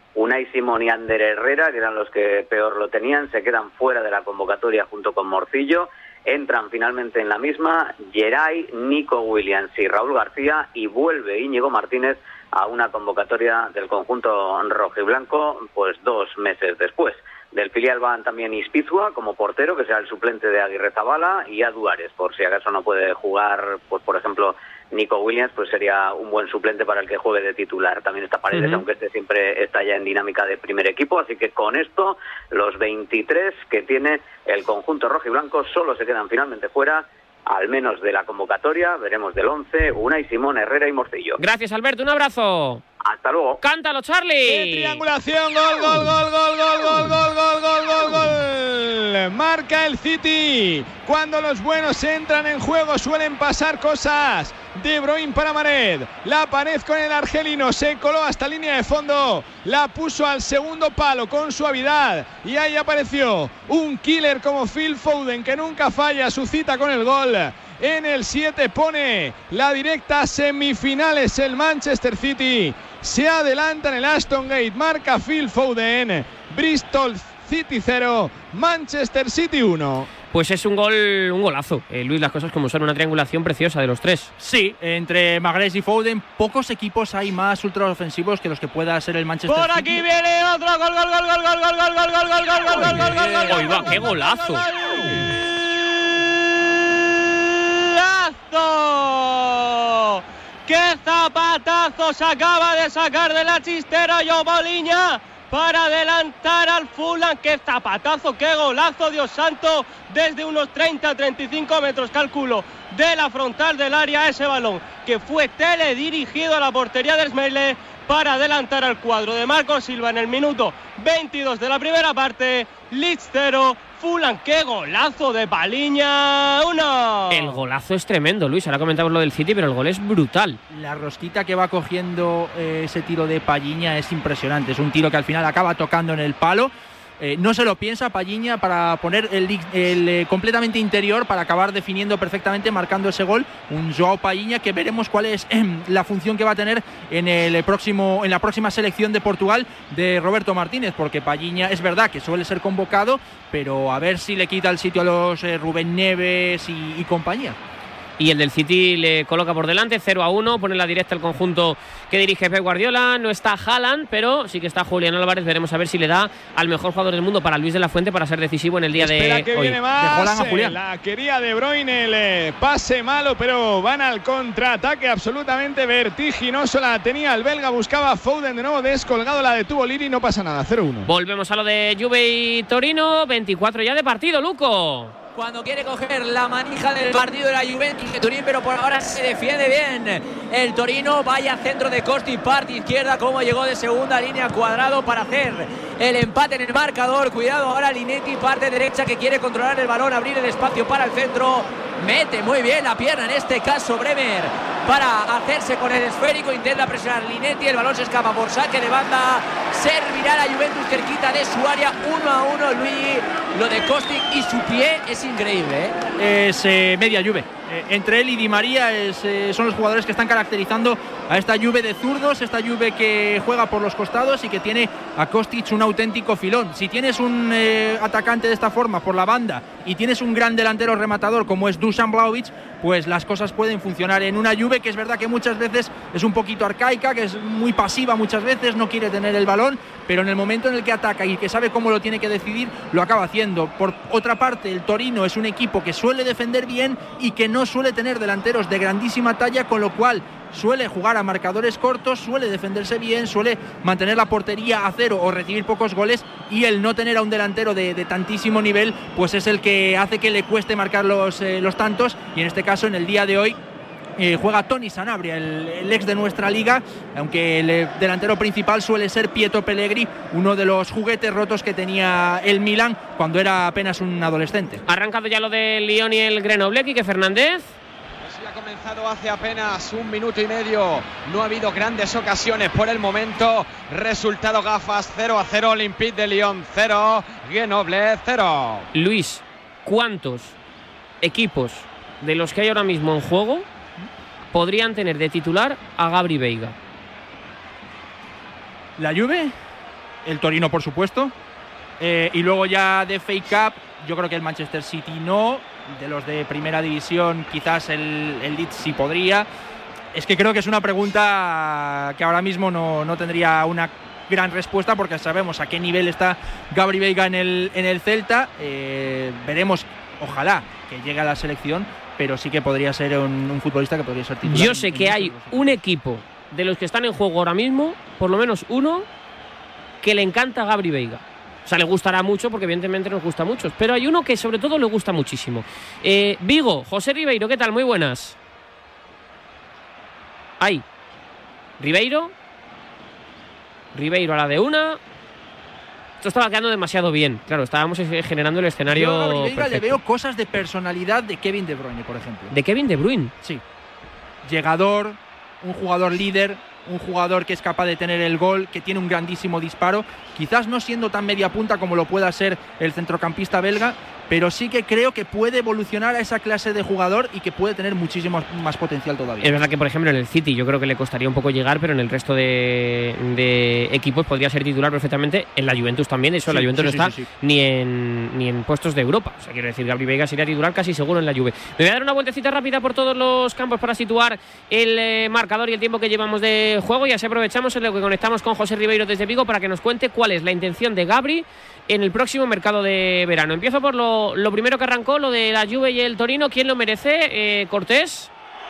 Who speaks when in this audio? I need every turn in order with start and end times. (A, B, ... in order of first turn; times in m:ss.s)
0:00.2-0:41.4 A
0:28.5-0:28.8 B
0:41.4-0:42.8 B
0:43.0-0:43.6 A
0:43.6-0:45.0 B
0:44.4-1:20.1 C
1:20.3-1:24.3 B
1:24.4-1:30.1 D
1:29.5-2:07.6 E
1:33.5-1:34.6 B
2:07.3-2:10.6 B
2:10.7-2:37.6 D
2:38.2-2:49.8 B
2:49.0-3:01.1 C
2:50.0-2:50.8 D
3:01.1-3:05.2 B
3:05.4-3:36.0 F
3:36.2-4:23.6 D
4:24.2-4:34.8 D
4:34.9-4:37.7 B
4:38.2-4:48.9 G
4:48.9-4:50.6 B
4:51.2-4:53.7 B
4:54.5-4:56.8 B
4:59.0-4:59.5 D
5:00.2-5:01.3 D
5:02.0-5:09.5 D
5:10.1-5:25.7 D
5:24.4-5:29.1 B
5:30.0-5:38.4 B
5:41.8-5:42.3 B
5:43.9-5:45.0 B
5:46.2-5:50.0 B
5:48.9-5:52.5 D
5:52.5-5:53.3 B
5:54.5-6:09.6 D
6:09.4-6:38.3 B
6:16.5-6:17.3 D